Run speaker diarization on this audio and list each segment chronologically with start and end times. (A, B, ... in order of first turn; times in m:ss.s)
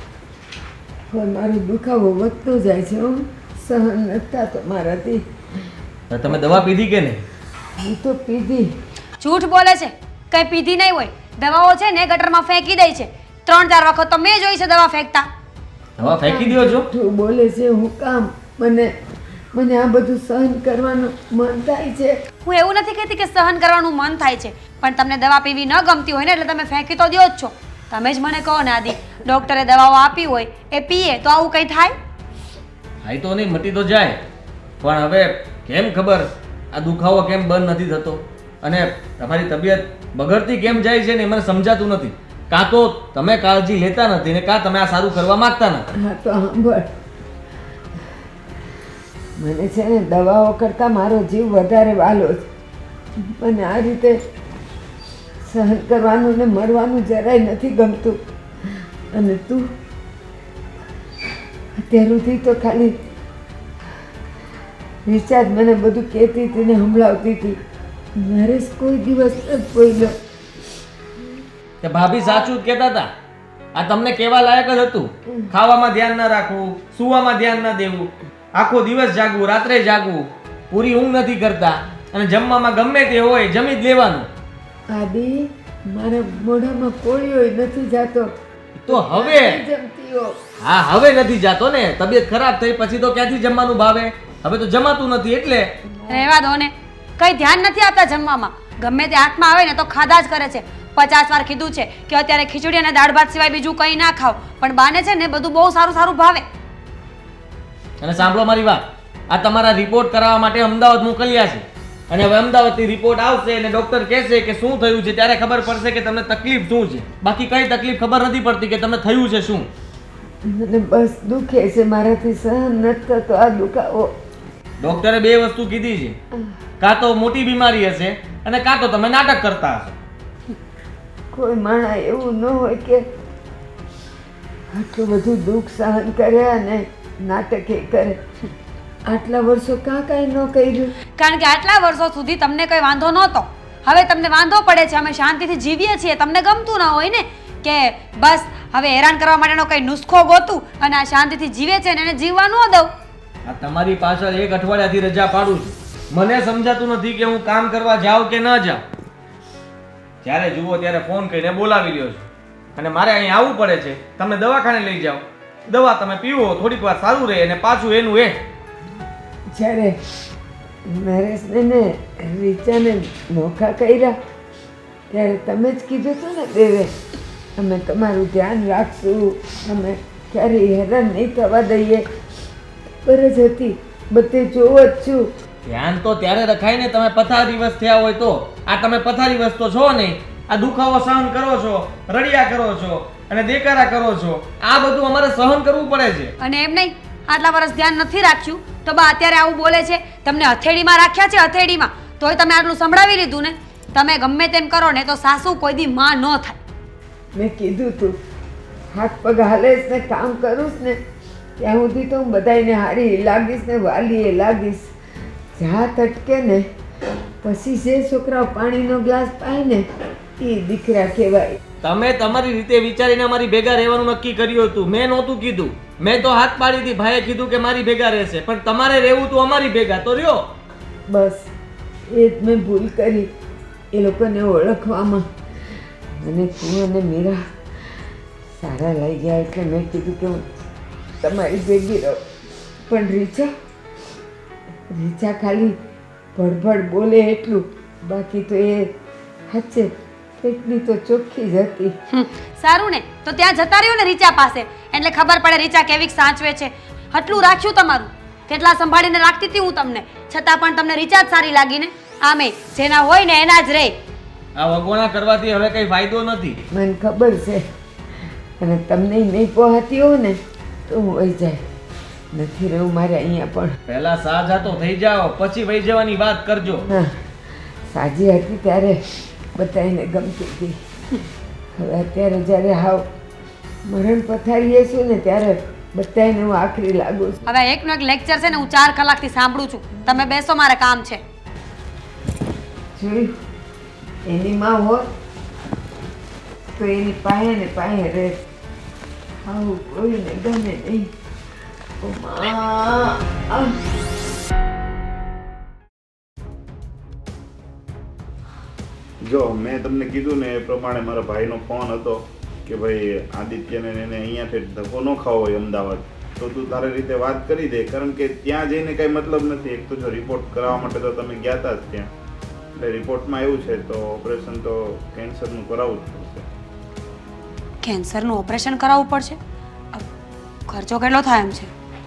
0:01.1-0:05.2 A
0:06.1-0:07.2 B
0:06.3-0:06.5 A
0:07.8-0:08.7 A
0:09.2-0:15.3 C
0:16.0-0:16.9 B
0:16.0-0:18.9 A
0:19.5-0:22.2 A
0:22.4-0:31.9 C
0:33.0-0:34.2 B
0:34.8-0:45.8 B
0:46.0-0:46.9 A
0:49.4-0:52.5 A
0:53.2-0:54.2 A
0:55.4-0:59.7 A
1:01.8-1:03.0 A
1:05.0-1:07.6 A
1:08.2-1:10.2 A
1:11.8-1:13.1 B
1:13.7-1:24.3 B
1:24.9-1:28.3 A
1:28.8-1:29.6 B
1:28.9-1:30.4 A
1:30.6-1:35.7 B
1:36.0-1:36.3 A
1:36.1-1:46.4 C
1:48.0-1:59.7 B
2:00.4-2:04.2 A
2:04.8-2:06.2 B
2:06.8-2:10.0 B
2:11.3-2:13.0 A
2:14.7-2:18.2 A
2:19.0-2:20.9 A
2:21.2-2:32.9 C
2:33.4-2:38.8 B
2:40.2-2:48.4 B
2:49.5-2:50.0 A
2:50.9-2:54.2 A
2:55.1-2:56.9 A
2:57.6-3:02.1 A
3:03.0-3:05.3 A
3:05.6-3:16.3 B
3:16.4-3:26.6 C
3:27.3-3:28.2 A
3:28.9-3:31.0 A
3:31.6-3:34.9 A
3:35.5-3:36.7 A
3:37.4-3:39.8 A
3:40.4-3:41.6 A
3:41.8-3:50.5 B
3:51.1-3:51.5 A
3:52.1-3:53.3 A
3:53.9-3:55.3 A
3:56.2-3:57.9 A
3:58.6-4:00.6 A
4:01.2-4:02.2 A
4:02.8-4:03.5 A
4:04.9-4:05.8 A
4:06.4-4:08.9 A
4:09.5-4:11.9 A
4:12.1-4:24.0 C
4:24.6-4:26.6 B
4:26.7-4:27.6 A
4:28.6-4:31.6 A
4:32.3-4:33.8 A
4:33.9-4:36.8 B
4:36.9-4:39.0 A
4:39.5-4:40.8 A
4:41.8-4:43.0 A
4:43.9-4:47.4 A
4:47.4-4:51.2 C
4:53.0-4:53.3 A
4:54.3-4:55.1 A
4:56.7-4:58.4 A
4:59.4-5:01.1 A
5:02.0-5:03.8 A
5:09.2-5:22.1 D
5:22.8-5:26.4 D
5:27.8-5:29.4 C
5:30.7-5:31.7 C